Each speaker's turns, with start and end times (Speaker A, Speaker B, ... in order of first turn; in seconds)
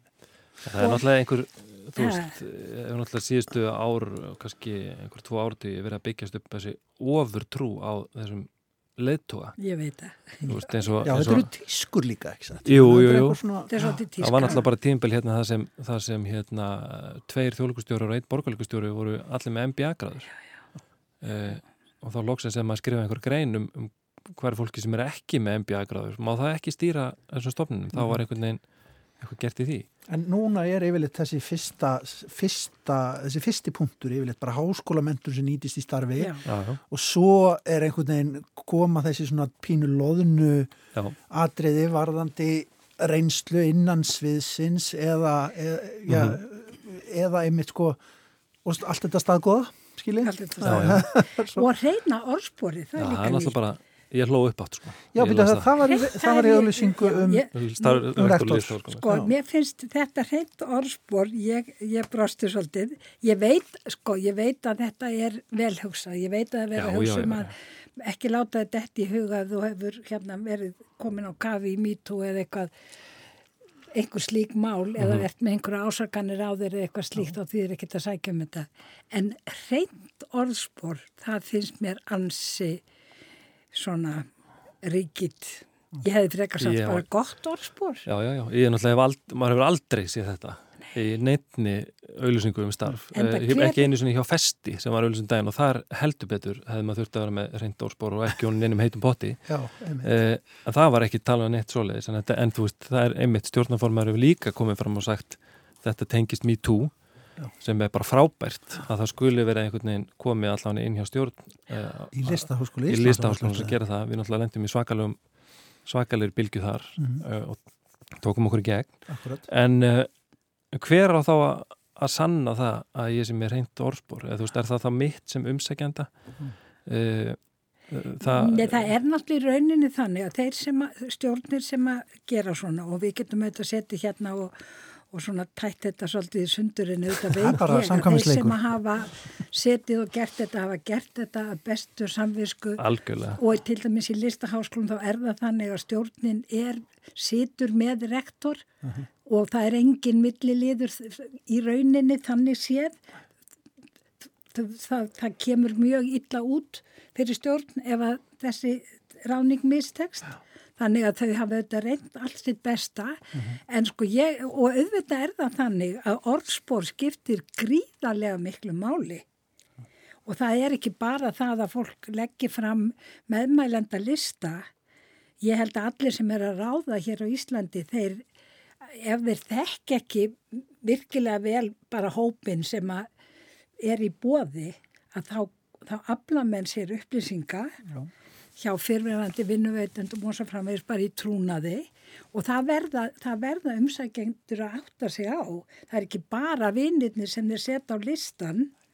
Speaker A: 0.6-9.6, 10.4-11.5, 12.7-13.4, 14.2-20.3, 21.2-28.6, 29.2-29.9, 36.4-36.8, 46.1-46.4, 50.6-51.0, 53.0-55.8, 57.5-59.1, 66.7-67.5, 75.0-75.2, 86.6-87.0, 88.0-99.5, 100.0-107.0, 107.6-115.2, 115.8-120.1, 120.7-126.1, 126.8-128.9, 142.8-143.4
Speaker B: 0.8-1.0, 2.0-2.3, 9.6-10.5, 13.7-14.6, 36.2-36.4, 50.2-53.6, 55.8-57.5, 58.9-72.7, 73.9-82.8, 83.7-84.3, 84.8-88.0, 93.1-93.9, 128.2-134.6, 135.1-142.8, 143.3-148.7, 149.2-153.0, 154.5-169.2, 170.2-174.7, 175.4-178.2, 178.8-183.1, 183.8-187.8, 188.6-198.7
Speaker C: 11.0-13.9, 30.1-40.7, 41.3-48.0, 48.6-51.7, 55.1-57.5, 58.0-59.3, 99.5-100.1, 112.1-113.7, 119.1-119.4, 137.3-138.6